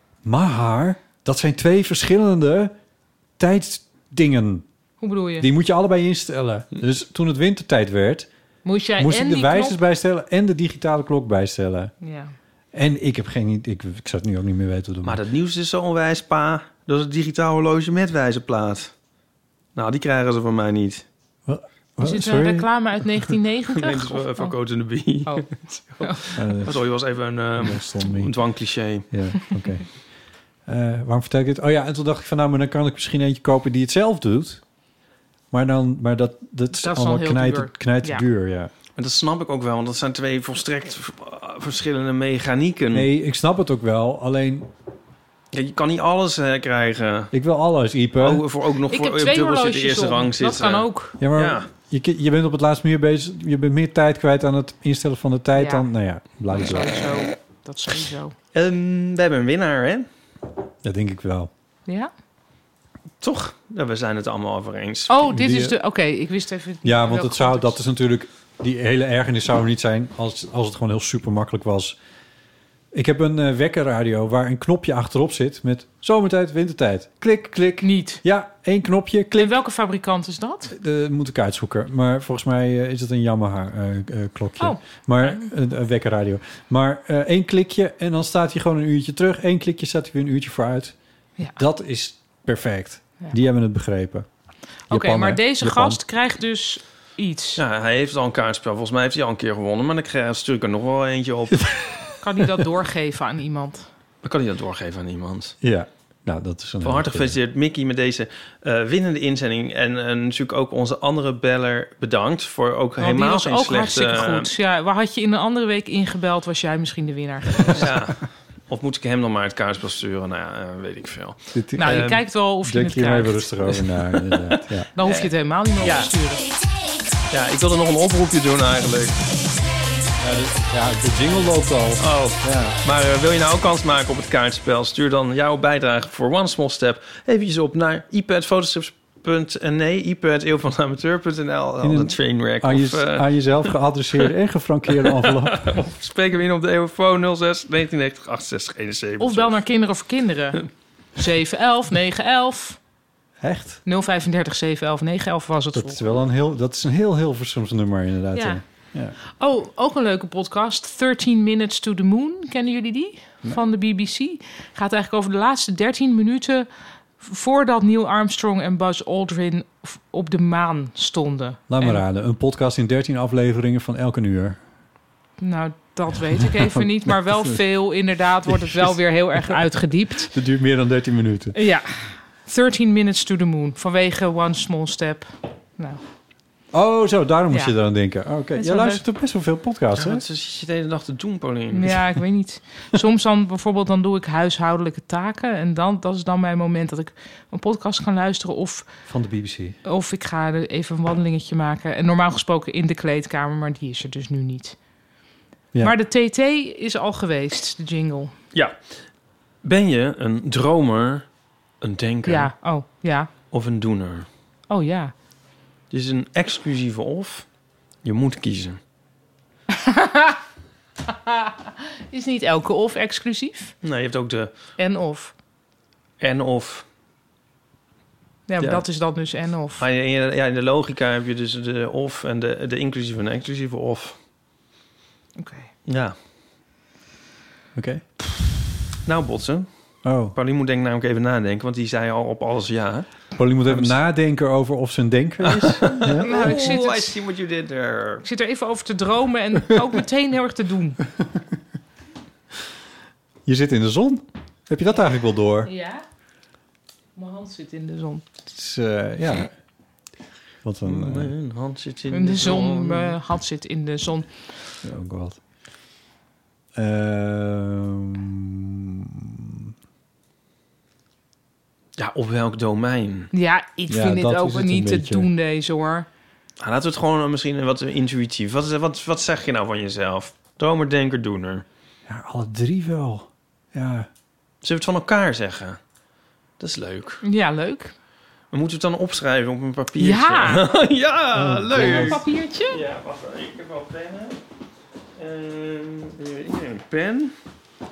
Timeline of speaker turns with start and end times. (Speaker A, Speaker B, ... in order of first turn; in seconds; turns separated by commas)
Speaker A: 0.2-2.7, Speaker A: 3.4-4.7, Speaker B: 5.0-5.5, Speaker A: 5.4-8.3, Speaker B: 8.7-9.8, Speaker A: 9.0-11.9, Speaker B: 12.0-12.3, Speaker A: 12.7-15.2, Speaker C: 15.0-18.9, Speaker C: 19.8-21.1, Speaker A: 21.5-22.7, Speaker B: 22.0-24.5, Speaker C: 23.7-29.1, Speaker A: 26.4-26.8, Speaker A: 27.6-28.3, Speaker A: 29.1-30.0, Speaker A: 30.7-34.6, Speaker A: 35.5-38.7, Speaker B: 36.8-38.2, Speaker C: 39.0-43.1, Speaker A: 42.9-44.7, Speaker C: 45.5-47.3, Speaker A: 47.3-48.4, Speaker C: 48.2-51.7, Speaker B: 48.9-51.2, Speaker A: 51.2-57.0, Speaker B: 55.6-55.9, Speaker B: 56.5-58.4, Speaker C: 58.5-60.1, Speaker A: 60.8-61.5, Speaker C: 63.2-65.2, Speaker B: 65.1-67.8, Speaker A: 65.2-65.8, Speaker A: 66.8-72.0, Speaker A: 72.9-79.6, Speaker B: 77.8-78.2, Speaker B: 79.3-80.7, Speaker A: 80.7-91.0, Speaker B: 84.6-85.5, Speaker A: 91.6-94.3, Speaker B: 94.9-97.6, Speaker A: 94.9-96.0, Speaker C: 97.6-101.8, Speaker B: 102.2-103.9, Speaker C: 104.2-105.5, Speaker A: 105.6-107.4, Speaker C: 106.8-114.5, Speaker B: 113.0-117.8, Speaker C: 117.7-122.2, Speaker A: 121.5-124.9, Speaker B: 121.8-123.5, Speaker B: 125.0-126.5, Speaker C: 125.0-126.1, Speaker C: 127.3-129.2, Speaker A: 130.2-132.8, Speaker C: 132.0-143.7, Speaker A: 141.8-145.7, Speaker C: 144.9-149.6, Speaker B: 149.2-152.8, Speaker A: 153.4-153.8, Speaker B: 153.9-156.0, Speaker A: 155.7-159.2, Speaker B: 158.3-158.6, Speaker B: 159.2-166.7, Speaker B: 167.2-172.0, Speaker A: 171.7-174.6, Speaker B: 175.4-180.3, Speaker A: 176.3-177.6, Speaker A: 178.5-179.6, Speaker A: 180.3-181.6, Speaker B: 181.5-186.0, Speaker A: 186.7-190.2, Speaker B: 188.6-189.0, Speaker C: 189.9-192.1, Speaker B: 191.7-198.9, Speaker A: 199.1-199.8, Speaker B: 199.8-204.8, Speaker B: 205.8-208.3, Speaker C: 209.6-211.2, Speaker C: 211.8-212.5, Speaker B: 212.3-213.3, Speaker C: 213.5-214.3, Speaker B: 214.7-215.1, Speaker C: 215.9-217.5, Speaker C: 218.0-218.8, Speaker B: 219.7-220.4, Speaker B: 221.1-223.7, Speaker C: 223.8-224.5, Speaker B: 224.8-225.3, Speaker C: 226.2-226.8, Speaker B: 228.5-229.8, Speaker C: 229.8-234.2, Speaker B: 235.4-235.7, Speaker C: 235.8-236.2, Speaker A: 237.8-238.1, Speaker C: 239.1-244.0, Speaker A: 240.0-240.3, Speaker A: 243.4-246.6, Speaker C: 245.4-248.2, Speaker B: 246.2-247.2, Speaker B: 248.2-251.0, Speaker A: 253.5-255.7, Speaker B: 255.7-256.0, Speaker B: 257.2-258.2, Speaker A: 258.5-259.5, Speaker A: 260.6-261.3, Speaker C: 260.9-263.2, Speaker B: 262.1-264.3, Speaker A: 264.8-265.4, Speaker A: 266.8-269.7, Speaker C: 272.0-273.3, Speaker B: 273.3-276.1, Speaker A: 273.9-275.3, Speaker C: 276.6-281.6, Speaker A: 282.1-284.1, Speaker C: 284.6-285.8, Speaker C: 286.6-287.2, Speaker B: 287.2-287.9, Speaker C: 288.5-294.4, Speaker B: 290.0-290.6, Speaker A: 291.3-292.2, Speaker B: 291.7-292.8, Speaker C: 295.2-297.3